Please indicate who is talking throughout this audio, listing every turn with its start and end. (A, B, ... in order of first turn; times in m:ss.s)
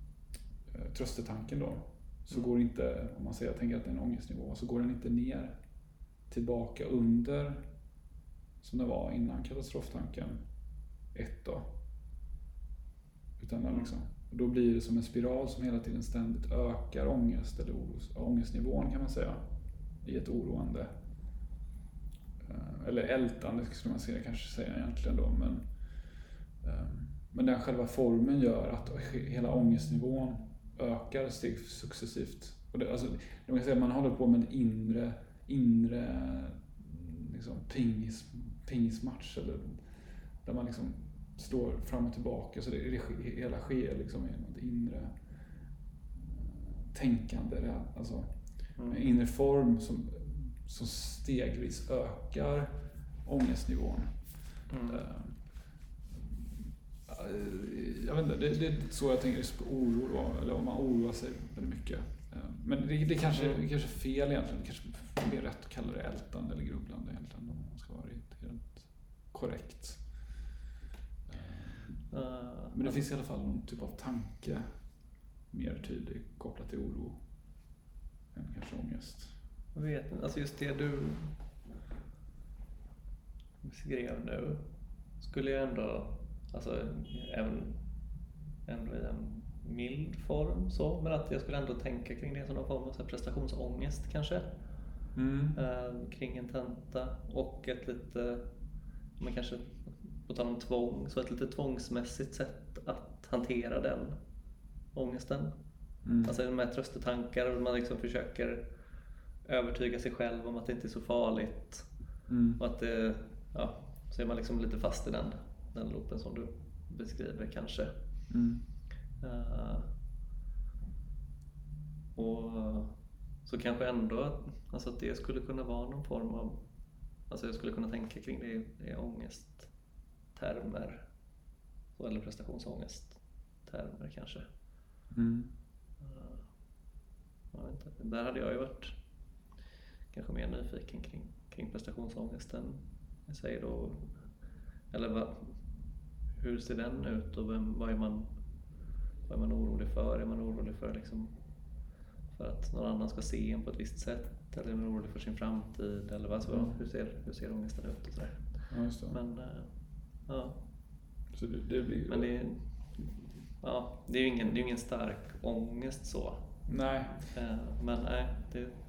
0:00.7-0:05.6 A
0:06.3-0:07.6 A
0:08.6-0:10.4 A
0:11.1-0:11.7 A
0:13.4-0:19.5 A
0:13.7-0:13.9 B
0:20.0-0:20.9 A
0:22.4-0:45.3 A
0:46.1-0:55.5 A
0:54.7-0:55.0 B
0:56.1-1:10.4 A
1:11.3-1:14.9 A
1:12.1-1:13.0 B
1:15.5-1:17.2 A
1:18.3-1:19.4 A
1:19.7-1:21.4 B
1:23.6-1:24.6 B
1:25.2-1:27.8 B
1:28.7-1:34.5 B
1:35.2-1:35.6 A
1:35.6-1:38.5 B
1:39.2-1:44.2 B
1:44.9-1:48.8 B
1:46.0-1:46.3 A
1:49.4-1:52.0 B
1:52.3-1:52.6 A
1:52.6-1:57.9 B
1:58.3-1:58.6 A
1:59.2-1:59.9 B
2:02.2-2:06.6 B
2:07.3-2:09.7 B
2:10.3-2:11.1 B
2:12.0-2:14.4 B
2:15.1-2:15.5 A
2:16.0-2:16.5 B
2:17.5-2:19.0 B
2:20.1-2:24.2 B
2:24.9-2:25.6 B
2:26.3-2:28.3 B
2:29.2-2:31.3 B
2:32.3-2:40.6 B
2:36.5-2:36.8 A
2:38.7-2:39.2 A
2:41.3-2:42.3 A
2:42.1-2:46.7 B
2:46.7-2:47.2 A
2:47.3-2:48.7 B